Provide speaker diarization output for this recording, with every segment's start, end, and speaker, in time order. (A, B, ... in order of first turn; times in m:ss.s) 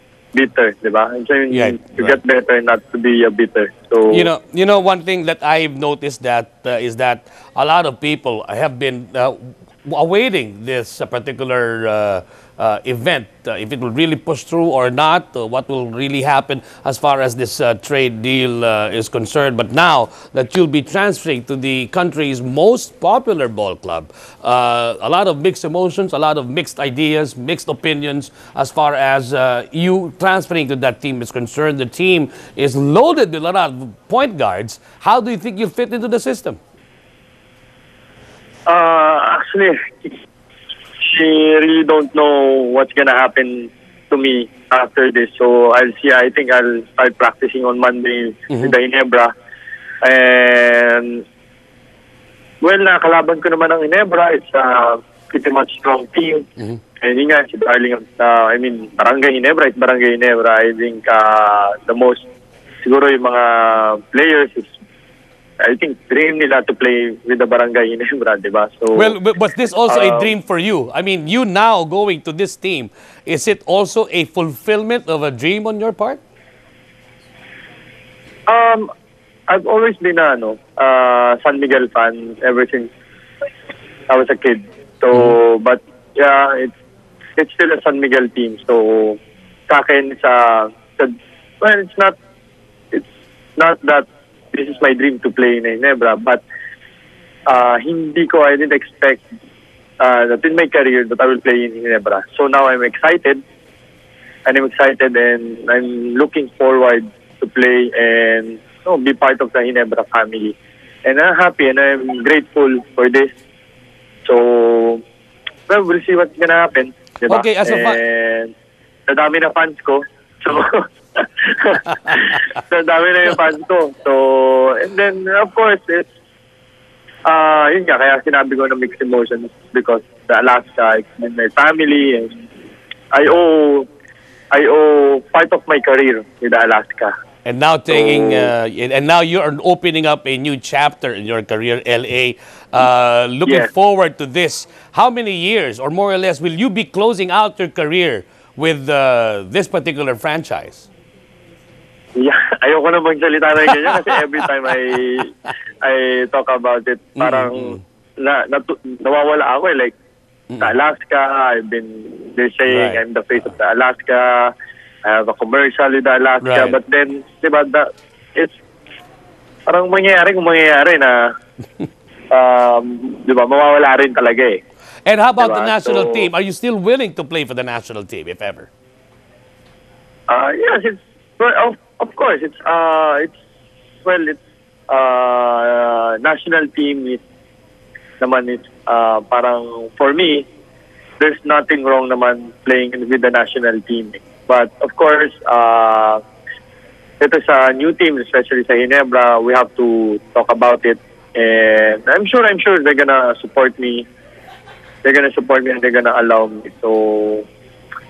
0:00.3-0:04.3 A
0:01.5-0:02.2 B
0:04.1-0:36.6 B
0:38.7-0:40.2 A
0:41.0-0:49.3 A
0:50.0-0:51.2 A
0:52.6-0:56.5 A
0:57.0-1:02.2 A
1:02.8-1:04.7 A
1:05.6-1:09.2 A
1:09.0-1:16.2 B
1:09.9-1:10.4 A
1:18.5-1:18.9 A
1:19.5-1:22.9 A
1:24.1-1:26.7 A
1:27.4-1:32.2 A
1:33.6-1:36.4 A
1:37.5-1:39.2 A
1:40.0-1:43.4 A
1:44.5-1:53.3 A
1:54.2-1:55.0 A
1:55.7-1:58.5 A
1:57.3-1:58.0 B
1:59.1-2:06.1 A
2:07.3-2:12.3 A
2:13.1-2:13.9 A
2:14.5-2:17.2 A
2:17.4-2:30.9 B
2:17.9-2:18.5 A
2:32.2-2:35.3 A
2:35.8-2:40.0 A
2:37.2-2:37.8 B
2:40.6-2:44.5 A
2:42.7-2:43.0 B
2:45.0-2:48.5 A
2:46.4-2:46.8 B
2:49.7-2:51.3 A
2:52.3-2:54.6 A
2:55.0-2:58.7 B
2:55.4-2:56.3 A
3:00.3-3:03.4 A
3:04.0-3:07.2 A
3:08.2-3:10.5 A
3:11.2-3:16.2 A
3:17.2-3:24.1 A
3:25.0-3:27.5 A